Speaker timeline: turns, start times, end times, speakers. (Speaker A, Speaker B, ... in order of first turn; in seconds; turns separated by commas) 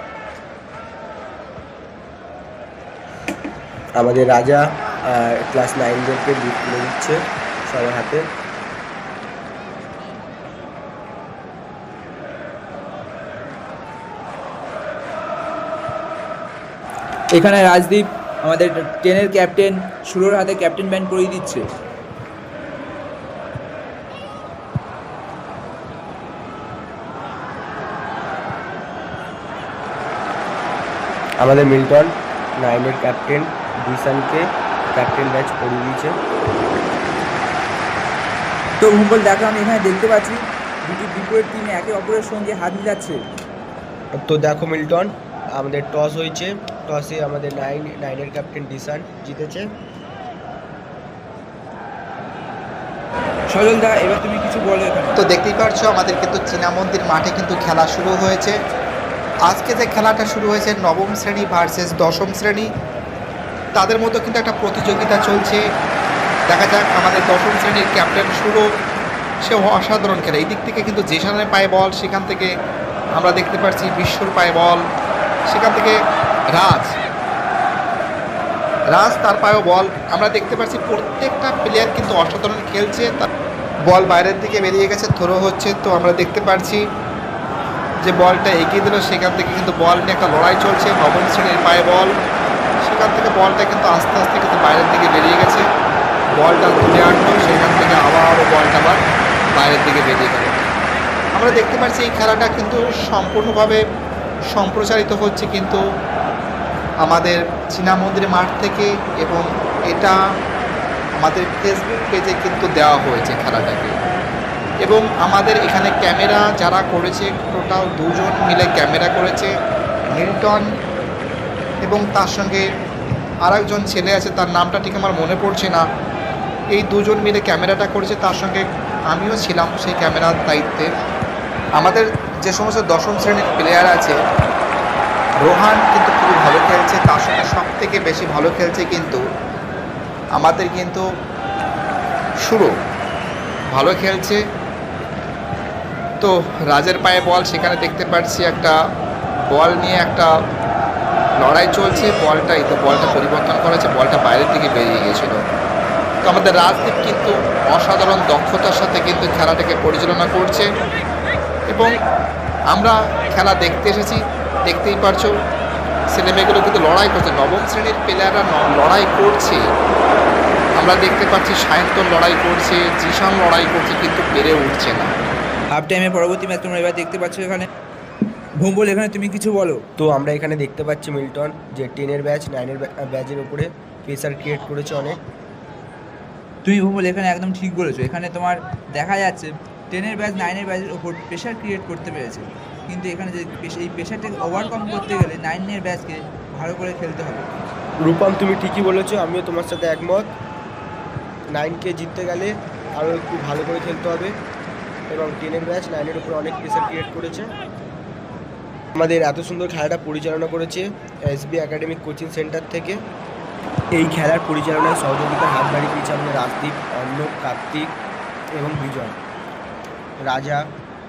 Speaker A: 4.0-8.3, Speaker B: 17.3-21.6, Speaker A: 31.4-36.2, Speaker B: 38.8-43.2, Speaker A: 44.2-49.7, Speaker B: 53.5-55.2, Speaker C: 55.2-58.5, Speaker C: 59.5-62.7, Speaker C: 63.8-65.6, Speaker C: 66.5-68.6, Speaker C: 69.4-72.5, Speaker C: 73.2-74.8, Speaker C: 75.5-76.0, Speaker C: 76.5-76.9, Speaker C: 78.9-83.3, Speaker C: 83.9-86.8, Speaker C: 88.0-92.1, Speaker C: 92.8-95.6, Speaker C: 96.4-99.0, Speaker C: 99.5-100.5, Speaker C: 101.3-103.8, Speaker C: 104.5-105.8, Speaker C: 107.0-110.2, Speaker C: 111.2-113.9, Speaker C: 114.8-119.5, Speaker C: 120.1-120.6, Speaker C: 121.8-122.7, Speaker C: 123.5-125.8, Speaker C: 126.7-130.9, Speaker C: 131.8-134.2, Speaker C: 135.4-139.2, Speaker C: 140.4-141.0, Speaker C: 142.4-142.7, Speaker C: 143.7-144.4, Speaker C: 146.2-148.8, Speaker C: 149.5-150.3, Speaker C: 151.4-155.4, Speaker C: 156.3-160.7, Speaker C: 162.7-165.3, Speaker C: 166.2-169.6, Speaker C: 170.8-175.1, Speaker B: 175.7-177.7, Speaker B: 178.6-179.8, Speaker A: 180.0-185.2, Speaker B: 186.7-197.5, Speaker A: 198.1-200.3, Speaker A: 201.5-204.3, Speaker A: 205.1-207.5, Speaker A: 209.0-213.0, Speaker A: 214.0-217.9, Speaker A: 218.6-219.2, Speaker A: 220.2-220.6